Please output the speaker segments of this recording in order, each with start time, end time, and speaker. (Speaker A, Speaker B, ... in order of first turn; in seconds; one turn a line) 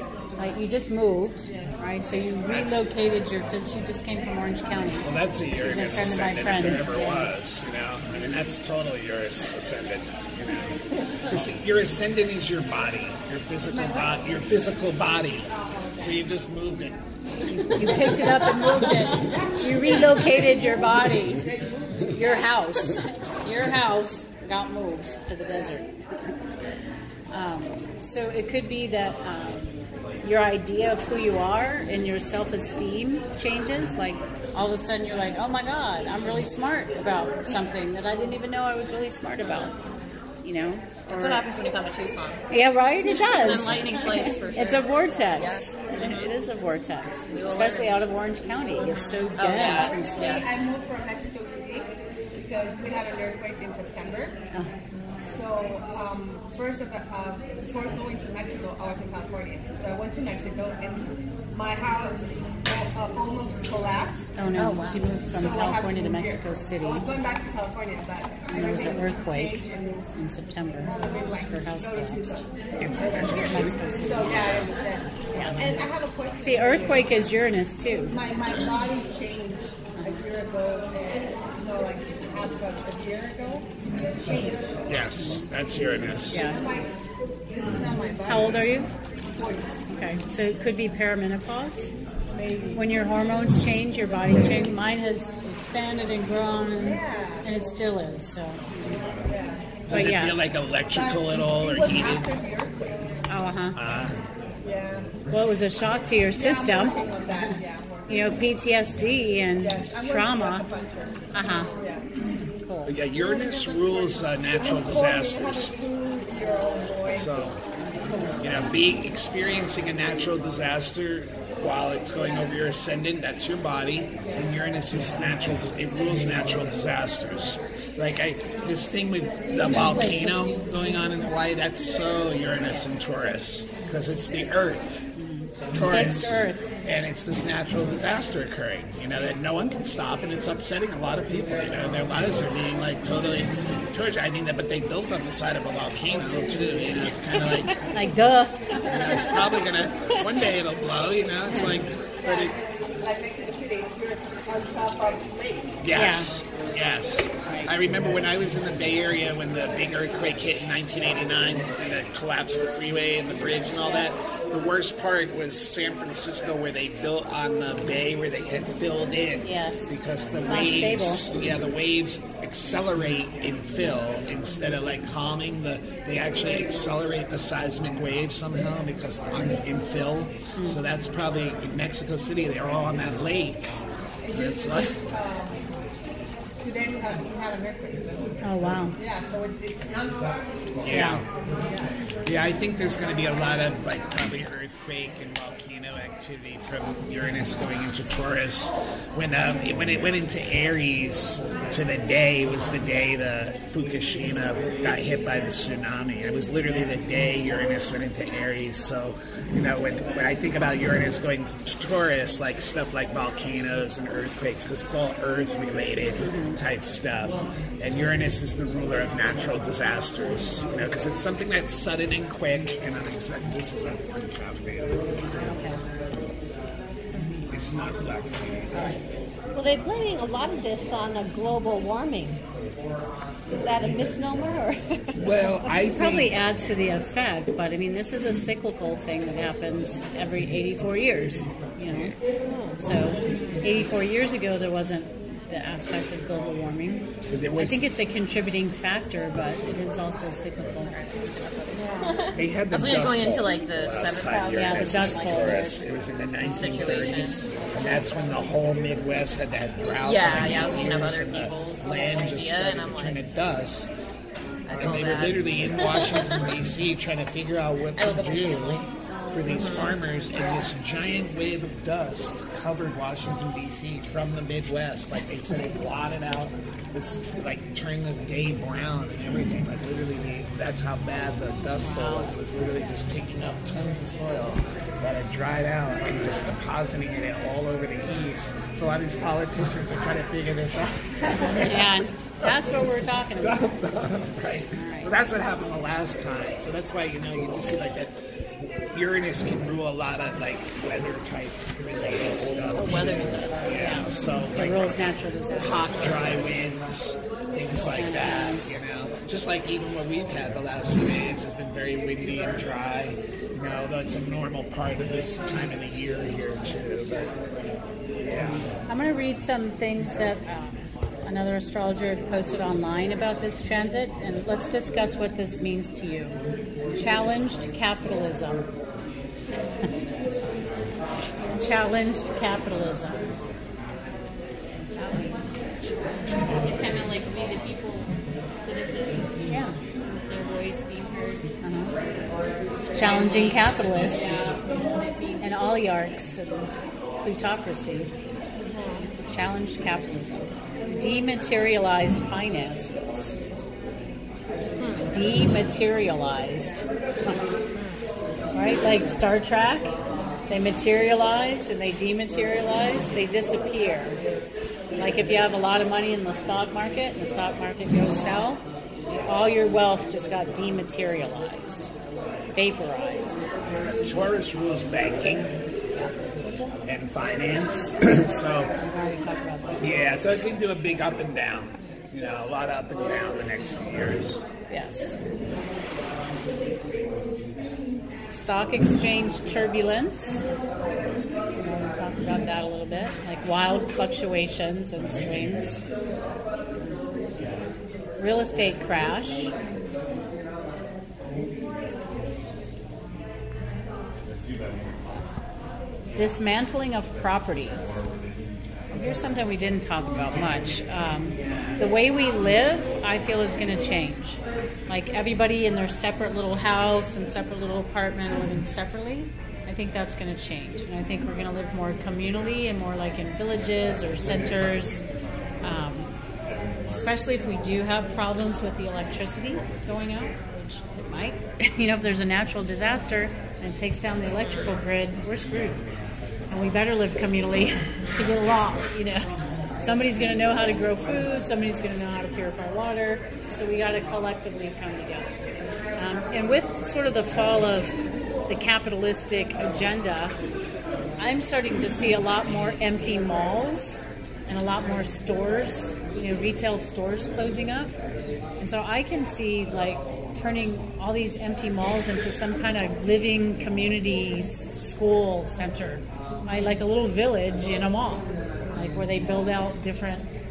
Speaker A: 0.4-7.3
Speaker B: 2.5-2.8
Speaker B: 5.0-17.0
Speaker C: 13.7-14.1
Speaker C: 15.4-16.2
Speaker A: 17.5-21.5
Speaker D: 17.6-19.2
Speaker C: 18.6-22.2
Speaker A: 22.1-25.9
Speaker A: 27.3-39.7
Speaker D: 39.4-39.7
Speaker A: 40.4-41.5
Speaker D: 41.1-42.4
Speaker A: 42.5-50.4
Speaker D: 43.1-46.3
Speaker D: 47.3-48.0
Speaker D: 48.8-50.5
Speaker C: 49.9-54.4
Speaker C: 55.2-64.3
Speaker A: 64.3-67.0
Speaker D: 64.6-65.0
Speaker C: 65.3-70.2
Speaker A: 68.5-69.6
Speaker A: 70.1-71.0
Speaker C: 70.8-72.5
Speaker A: 71.5-72.4
Speaker B: 72.8-74.7
Speaker C: 73.0-77.3
Speaker A: 73.1-74.3
Speaker A: 75.3-75.6
Speaker A: 76.4-78.2
Speaker C: 78.1-84.8
Speaker A: 80.0-80.2
Speaker B: 84.8-86.5
Speaker A: 85.2-85.5
Speaker A: 86.3-86.6
Speaker C: 86.3-86.9
Speaker C: 87.5-89.7
Speaker A: 88.3-88.9
Speaker A: 89.9-91.9
Speaker C: 92.3-92.9
Speaker A: 92.7-98.6
Speaker C: 96.8-97.5
Speaker C: 99.2-99.7
Speaker B: 99.9-102.3
Speaker A: 99.9-100.4
Speaker C: 100.9-103.1
Speaker A: 103.3-103.8
Speaker B: 103.7-104.2
Speaker C: 104.6-105.1
Speaker A: 105.3-107.5
Speaker C: 106.3-108.4
Speaker A: 108.1-110.7
Speaker C: 109.6-112.1
Speaker A: 111.3-111.7
Speaker A: 112.6-112.9
Speaker B: 112.8-115.7
Speaker C: 113.5-114.0
Speaker C: 114.5-118.4
Speaker B: 117.1-117.6
Speaker B: 118.4-135.0
Speaker A: 129.5-131.0
Speaker A: 135.2-136.7
Speaker B: 135.7-147.8
Speaker A: 147.9-148.6
Speaker E: 148.8-149.4
Speaker B: 148.8-152.5
Speaker E: 150.1-150.5
Speaker C: 152.2-155.8
Speaker B: 155.8-183.7
Speaker A: 155.9-156.3
Speaker A: 169.4-169.9
Speaker A: 170.4-171.2
Speaker C: 184.2-185.7
Speaker B: 184.2-185.0
Speaker C: 186.6-188.3
Speaker A: 188.4-188.9
Speaker C: 188.9-190.7
Speaker B: 190.8-191.2
Speaker A: 190.9-191.2
Speaker C: 191.6-191.9
Speaker B: 192.2-224.9
Speaker A: 216.2-216.6
Speaker A: 225.3-225.8
Speaker A: 227.1-227.4
Speaker B: 227.5-229.0
Speaker A: 228.7-229.0
Speaker E: 229.5-232.4
Speaker E: 233.5-235.2
Speaker B: 235.2-236.4
Speaker A: 235.8-242.2
Speaker B: 241.9-242.2
Speaker E: 242.4-242.8
Speaker A: 242.8-251.9
Speaker B: 247.3-247.8
Speaker E: 251.7-252.1
Speaker D: 252.0-255.5
Speaker B: 252.3-263.9
Speaker A: 254.4-255.8
Speaker D: 256.4-257.4
Speaker D: 260.0-263.3
Speaker D: 264.7-266.6
Speaker B: 264.8-317.3
Speaker D: 267.9-268.8
Speaker D: 269.4-270.0
Speaker A: 281.8-282.3
Speaker A: 291.4-293.7
Speaker A: 294.7-295.2
Speaker D: 302.7-303.9
Speaker A: 303.7-306.2
Speaker A: 307.7-308.8
Speaker B: 318.2-318.7
Speaker A: 318.9-326.4
Speaker A: 326.9-328.6
Speaker A: 331.5-333.3
Speaker A: 334.7-335.4
Speaker F: 336.7-339.4
Speaker A: 339.5-339.8
Speaker F: 340.1-341.4
Speaker A: 341.6-341.9
Speaker A: 342.9-344.5
Speaker D: 343.0-343.5
Speaker A: 345.4-348.1
Speaker E: 348.7-349.1
Speaker A: 349.2-353.4
Speaker D: 354.8-355.1
Speaker A: 355.1-357.4
Speaker D: 357.7-358.0
Speaker A: 358.5-359.9
Speaker A: 360.5-364.2
Speaker A: 365.0-371.9
Speaker A: 372.5-373.5
Speaker B: 373.8-375.5
Speaker E: 376.4-376.8
Speaker B: 376.9-378.7
Speaker A: 378.8-380.0
Speaker B: 379.8-384.4
Speaker A: 384.7-385.1
Speaker A: 388.3-390.4
Speaker A: 391.6-395.8
Speaker A: 398.2-399.5
Speaker A: 404.9-405.4
Speaker A: 406.1-407.8
Speaker A: 408.9-425.0
Speaker A: 425.6-426.1
Speaker A: 426.9-435.8
Speaker D: 434.4-434.7
Speaker A: 436.5-445.3
Speaker A: 445.9-448.0
Speaker A: 448.5-450.4
Speaker A: 451.2-457.9
Speaker A: 458.6-470.2